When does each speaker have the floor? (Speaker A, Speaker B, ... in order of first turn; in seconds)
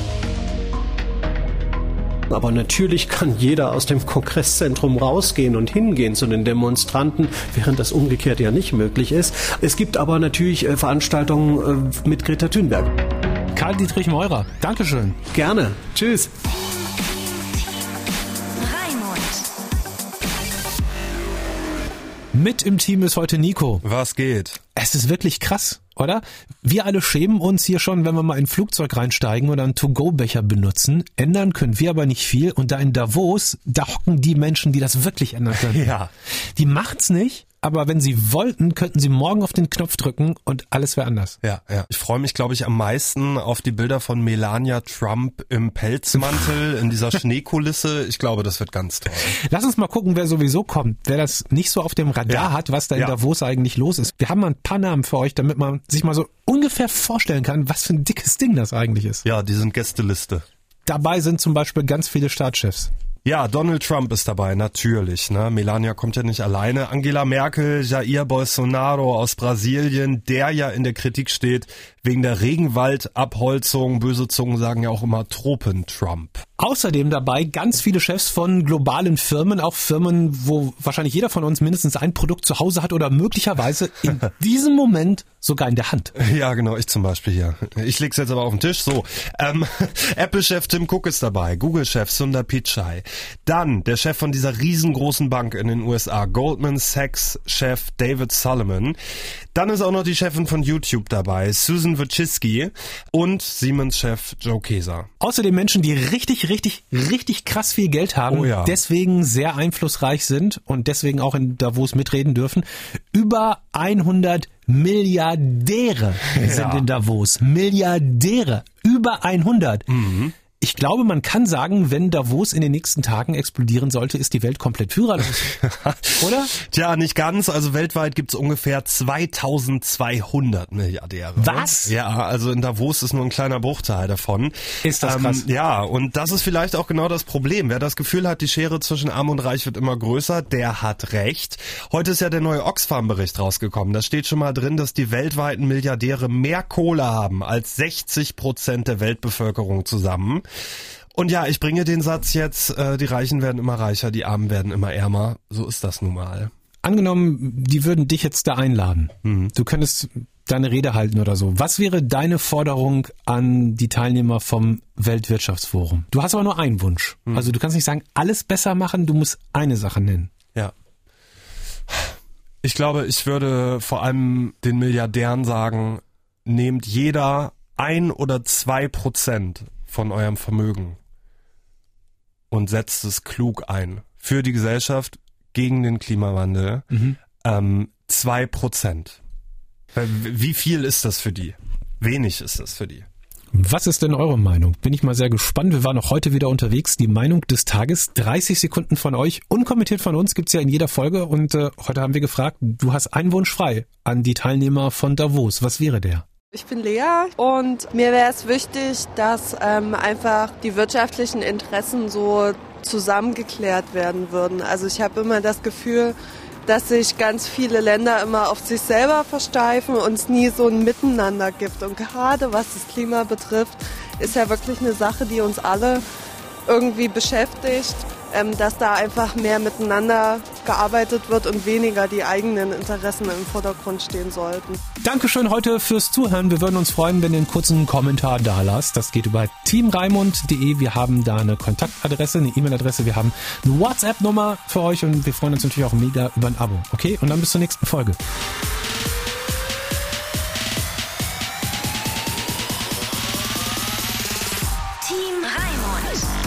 Speaker A: 2.3-12.9, 15.3-16.3
Speaker B: 13.5-15.2, 22.3-23.8, 24.8-35.9, 36.5-41.4, 49.5-59.2, 60.9-62.9, 76.6-86.1, 105.2-119.9, 120.6-125.4, 126.2-126.5, 131.4-131.9, 134.8-135.4, 156.8-170.3, 193.5-206.2, 235.0-248.2
Speaker C: 18.6-19.4, 255.0-256.3
Speaker D: 23.8-24.6, 35.6-36.1, 41.4-49.4, 52.3-53.2, 59.2-60.4, 63.2-76.4, 86.2-99.0, 99.5-105.1, 108.3-108.8, 116.3-116.9, 119.9-120.4, 125.6-150.4, 151.1-156.5, 159.2-159.5, 171.9-181.0, 182.5-186.8, 187.4-189.2, 189.9-193.1
Speaker E: 206.5-226.0, 226.7-234.8